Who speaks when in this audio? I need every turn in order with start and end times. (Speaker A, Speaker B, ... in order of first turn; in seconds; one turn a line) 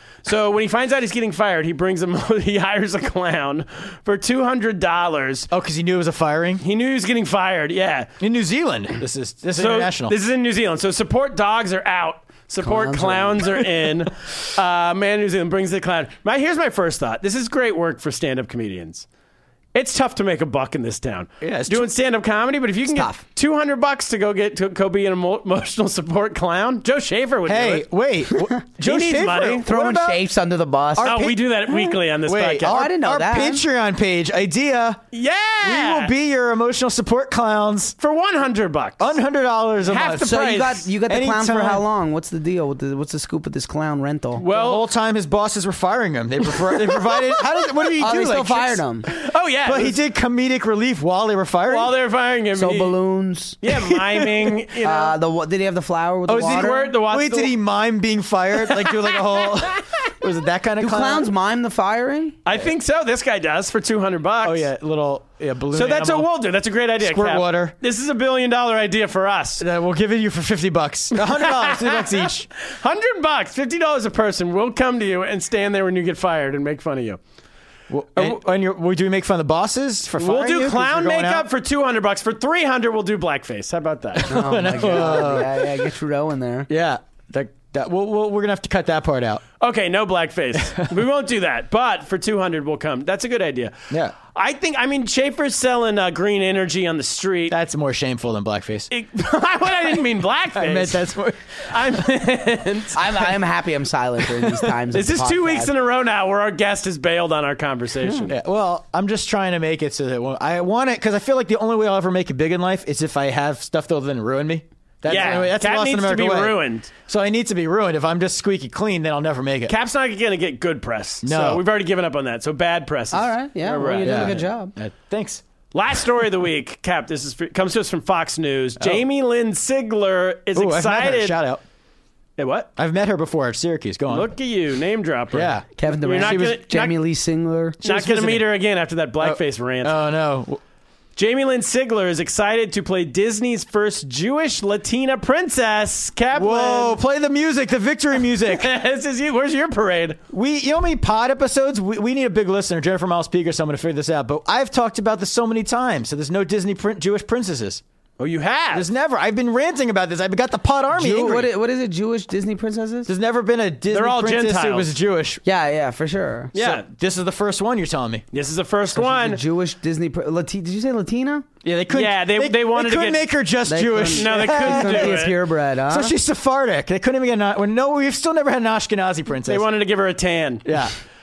Speaker A: 0.2-5.5
Speaker B: 5.5-6.6
Speaker A: 6.6-8.1
Speaker B: 8.2-10.2
Speaker A: 9.6-19.1
Speaker C: 12.6-13.5
Speaker A: 19.7-27.9
Speaker B: 21.4-21.9
Speaker C: 22.9-23.2
Speaker B: 27.4-30.2
Speaker A: 28.8-29.7
Speaker C: 29.6-31.3
Speaker B: 31.0-35.0
Speaker A: 31.0-32.7
Speaker C: 32.6-33.6
Speaker A: 35.1-36.1
Speaker B: 35.6-37.9
Speaker A: 38.0-39.2
Speaker B: 39.0-40.4
Speaker A: 39.8-40.8
Speaker C: 40.0-44.4
Speaker B: 41.0-41.8
Speaker A: 44.4-44.9
Speaker B: 44.4-48.8
Speaker A: 46.5-47.6
Speaker C: 48.0-49.1
Speaker A: 49.1-50.0
Speaker B: 49.6-51.9
Speaker A: 51.7-53.0
Speaker C: 52.5-53.6
Speaker A: 53.6-55.2
Speaker B: 53.7-54.5
Speaker C: 54.8-56.9
Speaker B: 56.3-61.3
Speaker A: 56.3-57.5
Speaker A: 58.6-59.8
Speaker C: 60.8-62.4
Speaker A: 62.5-64.7
Speaker B: 64.4-66.3
Speaker A: 65.7-69.6
Speaker B: 67.0-67.7
Speaker B: 69.6-72.5
Speaker A: 71.1-77.2
Speaker B: 77.9-81.5
Speaker A: 80.1-84.3
Speaker B: 84.1-85.9
Speaker C: 84.3-86.7
Speaker A: 84.8-85.1
Speaker B: 86.7-89.4
Speaker A: 89.6-97.5
Speaker B: 93.9-94.1
Speaker B: 97.5-98.9
Speaker A: 98.9-101.1
Speaker B: 100.5-102.0
Speaker A: 101.7-103.4
Speaker C: 102.9-105.7
Speaker A: 104.6-108.3
Speaker B: 108.3-119.8
Speaker A: 115.0-116.9
Speaker A: 119.7-124.4
Speaker B: 121.2-121.6
Speaker C: 123.1-124.7
Speaker B: 124.0-125.4
Speaker A: 125.7-131.4
Speaker B: 128.8-129.0
Speaker B: 130.5-131.6
Speaker A: 132.4-132.7
Speaker B: 132.8-134.3
Speaker A: 134.1-137.0
Speaker B: 135.3-136.6
Speaker C: 135.8-138.4
Speaker A: 137.8-140.0
Speaker B: 137.8-138.3
Speaker B: 139.2-140.6
Speaker A: 141.2-147.0
Speaker B: 146.3-148.7
Speaker A: 148.2-150.2
Speaker B: 150.3-157.8
Speaker A: 158.2-158.9
Speaker B: 158.7-161.5
Speaker C: 160.9-163.1
Speaker B: 163.1-165.4
Speaker A: 163.9-164.9
Speaker C: 165.4-166.5
Speaker A: 166.5-166.8
Speaker B: 166.6-168.2
Speaker A: 168.3-169.4
Speaker C: 168.9-171.4
Speaker B: 171.6-175.3
Speaker A: 171.9-173.3
Speaker C: 173.7-176.2
Speaker A: 174.1-175.4
Speaker B: 175.9-179.7
Speaker A: 179.4-180.7
Speaker B: 180.6-180.9